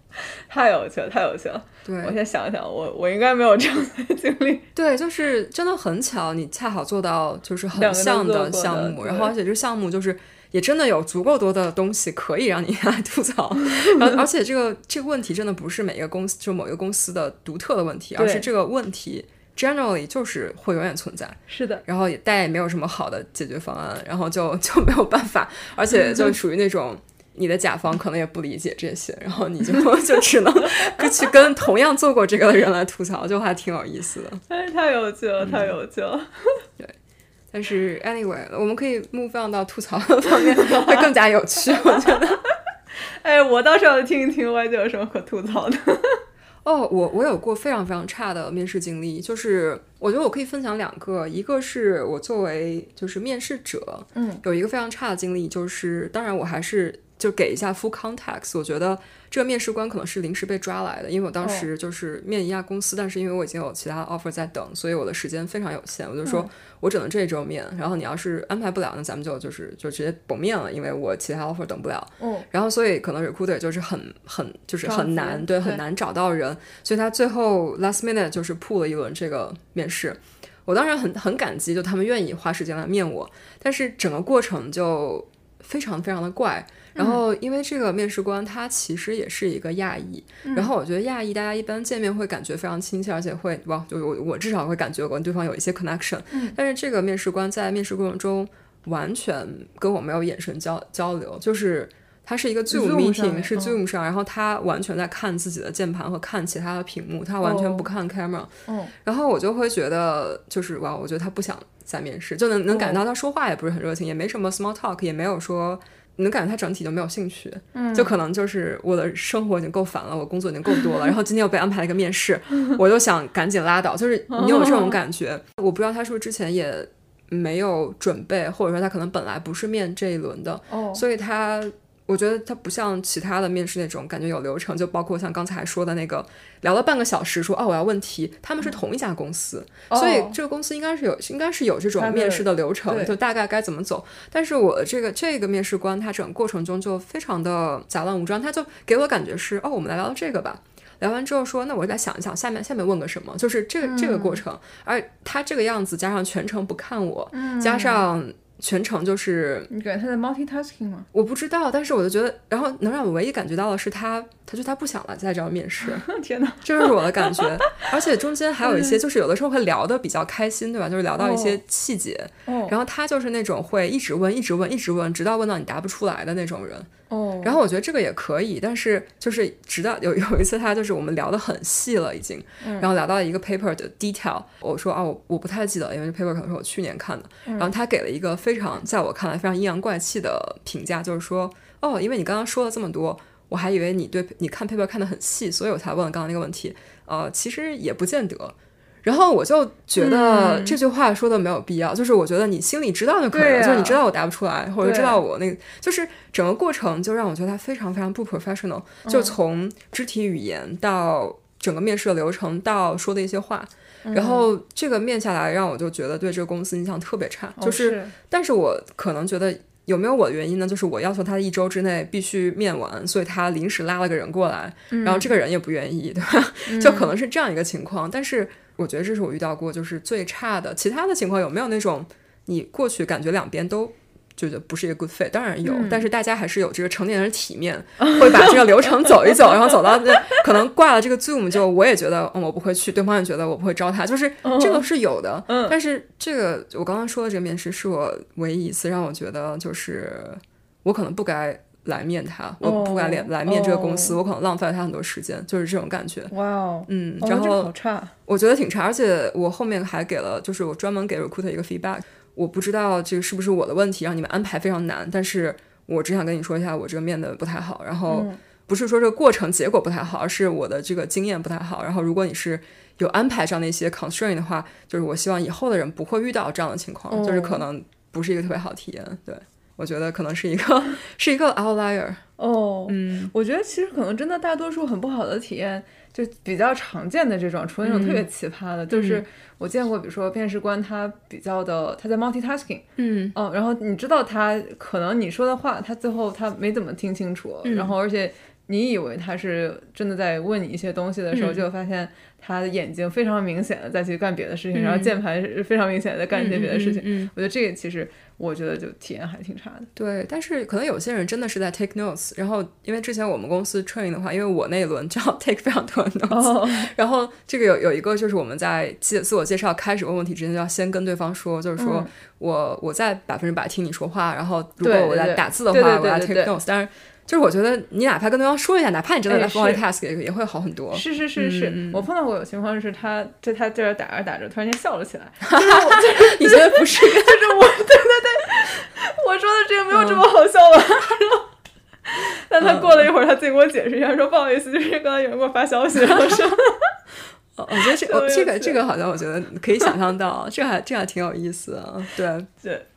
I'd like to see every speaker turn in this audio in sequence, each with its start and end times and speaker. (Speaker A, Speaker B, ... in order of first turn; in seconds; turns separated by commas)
Speaker A: 0.5-4.7, Speaker B: 1.8-2.1, Speaker B: 4.7-34.4, Speaker A: 7.7-9.3, Speaker A: 13.8-14.1, Speaker A: 18.1-18.5, Speaker A: 21.5-21.8, Speaker A: 34.5-36.6, Speaker B: 35.4-35.7, Speaker B: 37.5-42.4, Speaker A: 40.5-41.1, Speaker A: 41.9-42.3, Speaker A: 43.2-46.2, Speaker B: 46.6-108.5, Speaker A: 54.1-54.4, Speaker A: 61.4-61.7, Speaker A: 66.2-66.5, Speaker A: 72.2-72.5, Speaker A: 74.8-75.8, Speaker A: 86.9-87.2, Speaker A: 90.4-90.7, Speaker A: 96.3-96.5, Speaker A: 102.7-103.8, Speaker A: 107.4-107.9, Speaker A: 108.7-108.9, Speaker B: 109.0-159.7, Speaker A: 112.7-113.0, Speaker A: 117.7-118.1, Speaker A: 124.3-125.0, Speaker A: 130.7-131.0, Speaker A: 139.9-140.4, Speaker A: 142.0-143.1, Speaker A: 153.8-154.4, Speaker A: 157.3-158.1, Speaker A: 159.7-161.1, Speaker B: 161.1-166.1, Speaker A: 165.8-167.9, Speaker B: 166.6-176.9, Speaker A: 168.6-169.0, Speaker A: 171.2-171.6, Speaker A: 172.4-172.7, Speaker A: 177.1-177.6, Speaker B: 177.4-256.3, Speaker A: 182.6-182.9, Speaker A: 200.0-200.8, Speaker A: 203.3-204.0, Speaker A: 204.8-205.2, Speaker A: 209.0-209.3, Speaker A: 214.0-214.5, Speaker A: 217.6-218.1, Speaker A: 224.9-225.3, Speaker A: 226.7-227.1, Speaker A: 235.6-236.1, Speaker A: 238.0-240.4, Speaker A: 244.4-244.8, Speaker A: 245.5-245.7, Speaker A: 252.6-254.2, Speaker A: 256.3-258.1, Speaker B: 256.9-257.7, Speaker B: 258.2-282.2, Speaker A: 268.1-268.4, Speaker A: 277.1-277.6, Speaker A: 282.4-309.9, Speaker B: 282.9-283.3, Speaker B: 287.8-288.3, Speaker B: 288.9-289.2, Speaker B: 293.0-293.3, Speaker B: 297.6-297.9, Speaker B: 301.3-301.6, Speaker B: 304.7-305.1, Speaker B: 306.3-307.3, Speaker B: 309.9-332.0, Speaker A: 316.3-316.9, Speaker A: 321.8-322.1, Speaker A: 324.8-326.5, Speaker A: 329.3-329.8, Speaker A: 330.9-341.5, Speaker B: 335.4-337.5, Speaker B: 339.9-340.2, Speaker A: 342.1-346.9, Speaker B: 342.6-343.1, Speaker B: 347.6-352.5, Speaker A: 347.7-348.8